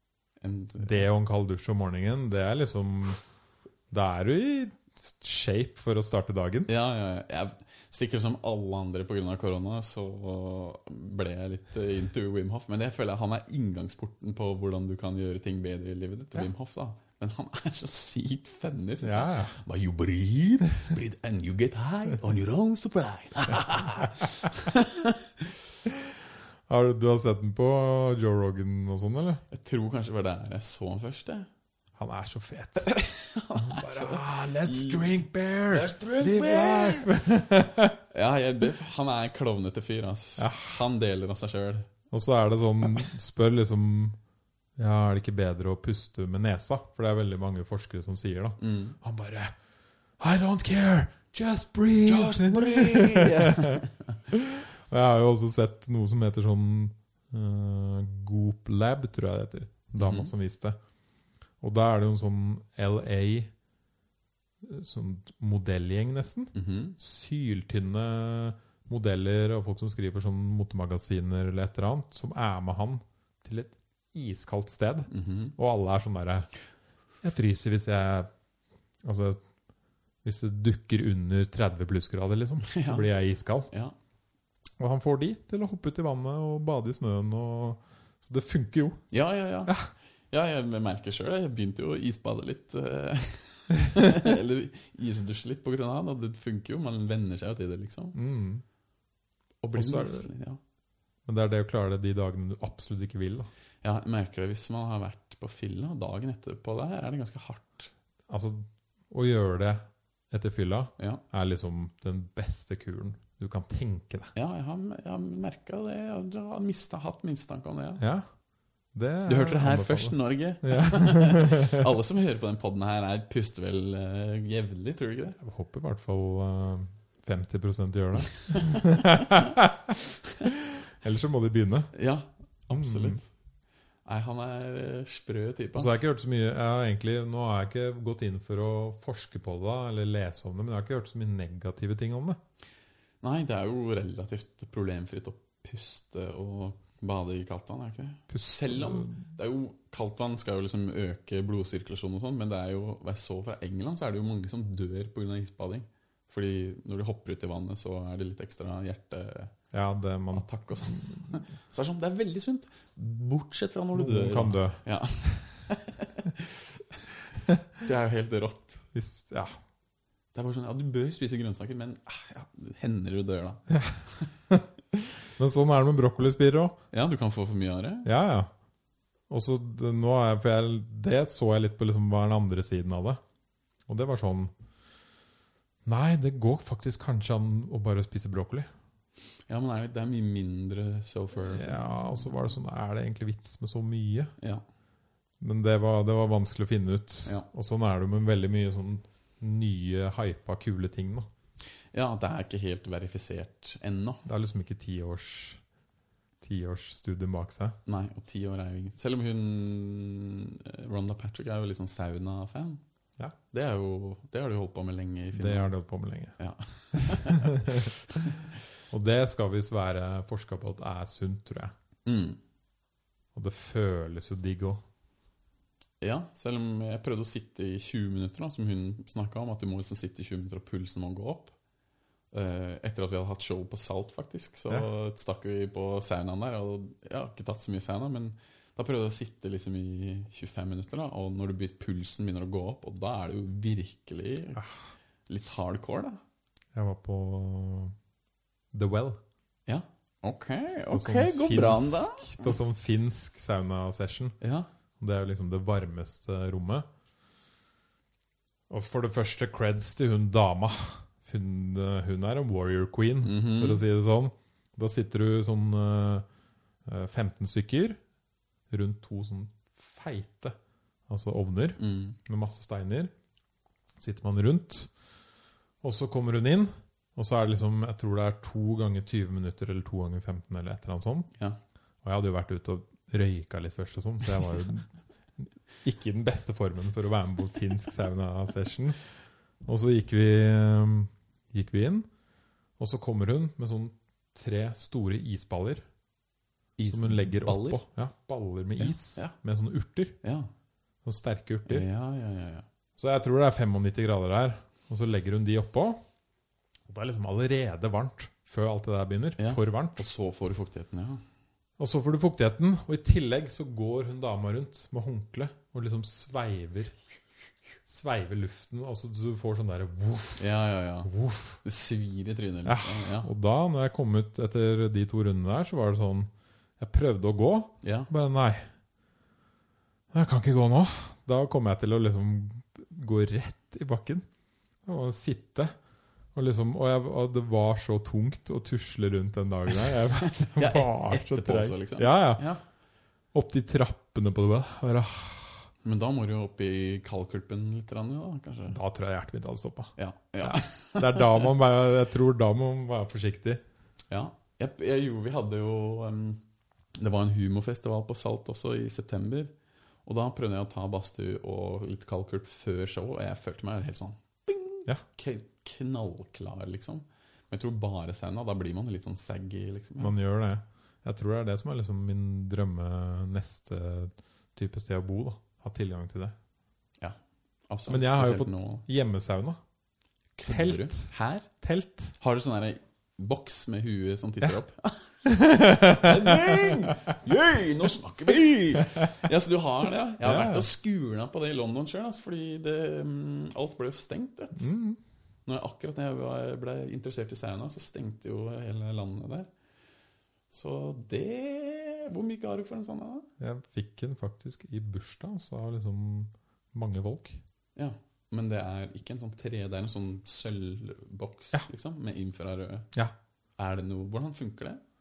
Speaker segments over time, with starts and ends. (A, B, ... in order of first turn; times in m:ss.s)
0:00.4-0:01.1 A
0:00.8-0:03.2 B
0:03.9-0:06.7 B
0:06.7-0:25.5 A
0:19.0-0:19.6 B
0:25.9-0:26.1 B
0:26.7-0:29.4 B
0:29.5-0:31.5 A
0:32.0-0:32.9 B
0:32.8-0:37.1 A
0:33.6-0:38.0 B
0:38.1-0:41.9 A
0:40.4-0:40.8 B
0:42.1-0:44.2 B
0:44.8-0:49.5 B
0:48.6-0:49.0 A
0:50.2-1:00.8 B
0:52.0-0:54.1 A
1:00.0-1:00.3 A
1:01.6-1:03.5 B
1:04.6-1:16.5 B
1:06.6-1:07.0 A
1:15.1-1:15.6 A
1:17.2-1:18.3 B
1:19.0-1:19.4 B
1:20.2-1:23.7 B
1:22.6-1:23.1 A
1:23.7-1:23.9 A
1:24.8-1:29.0 B
1:29.1-1:29.8 A
1:30.3-1:38.2 A
1:38.2-1:38.6 B
1:39.6-1:40.6 A
1:39.7-1:40.3 B
1:41.3-1:43.5 B
1:43.8-1:47.9 A
1:48.3-1:54.3 B
1:54.4-1:58.0 A
1:58.0-1:58.3 B
1:58.9-2:01.9 B
1:59.3-2:05.4 A
2:05.4-2:11.9 B
2:08.5-2:08.8 A
2:11.9-2:13.3 A
2:12.7-2:13.2 B
2:14.1-2:16.0 A
2:15.8-2:22.4 B
2:23.2-2:39.5 A
2:28.3-2:29.2 B
2:39.7-2:41.3 B
2:40.3-2:47.0 A
2:43.9-2:44.8 B
2:47.8-2:48.8 A
2:48.9-2:49.6 B
2:50.3-2:54.3 A
2:53.7-2:56.8 B
2:56.9-2:58.1 A
2:58.0-2:58.5 B
2:59.3-3:03.2 B
3:03.9-3:04.5 B
3:05.8-3:08.7 B
3:09.5-3:12.3 A
3:11.5-3:14.3 B
3:15.4-3:21.3 B
3:21.9-3:24.3 A
3:24.3-3:25.6 B
3:26.4-3:27.8 B
3:27.9-3:32.8 A
3:33.5-3:35.7 A
3:35.3-3:36.4 B
3:36.4-3:38.4 A
3:36.9-3:37.9 B
3:38.9-3:41.7 B
3:42.1-3:42.4 A
3:43.4-3:44.8 B
3:46.0-3:51.6 A
3:52.3-4:04.6 A
4:05.3-4:06.2 A
4:06.7-4:08.0 B
4:08.7-4:09.2 B
4:09.7-4:12.6 A
4:10.9-4:14.4 B
4:14.4-4:14.7 A
4:15.0-4:16.9 B
4:18.7-4:26.3 B
4:23.2-4:23.8 A
4:26.9-4:28.0 B
4:28.7-4:30.6 B
4:31.1-4:33.1 B
4:31.8-4:32.2 A
4:34.0-4:34.9 B
4:35.8-4:41.3 B
4:42.0-4:49.1 B
4:49.6-4:52.1 B
4:52.8-4:55.8 B
4:56.8-4:57.8 A
4:56.9-5:00.2 B
4:58.8-4:59.4 A
5:00.2-5:00.5 A
5:01.0-5:01.9 B
5:01.7-5:02.7 A
5:03.0-5:06.0 B
5:06.9-5:10.0 B
5:09.4-5:11.2 A
5:11.8-5:16.9 B
5:17.9-5:20.5 B
5:20.4-5:21.1 A
5:21.0-5:21.6 B
5:21.6-5:23.3 A
5:22.7-5:28.7 B
5:27.8-5:28.1 A
5:30.1-5:34.3 B
5:34.8-5:35.7 B
5:36.3-5:42.4 B
5:39.7-5:42.6 A
5:43.3-5:45.7 B
5:45.8-5:48.8 A
5:48.7-5:53.6 B
5:50.0-5:51.5 A
5:54.1-5:56.4 A
5:57.0-5:59.5 A
6:00.1-6:10.2 A
6:10.0-6:16.3 B
6:17.7-6:18.8 A
6:17.9-6:19.6 B
6:20.4-6:21.5 A
6:20.5-6:21.1 B
6:21.6-6:22.2 B
6:22.2-6:34.7 A
6:25.2-6:27.0 B
6:28.8-6:29.1 B
6:30.2-6:30.7 B
6:34.6-6:35.0 B
6:35.5-6:39.5 A
6:40.5-6:43.3 A
6:43.4-6:47.4 B
6:47.8-6:52.9 A
6:53.6-6:54.8 A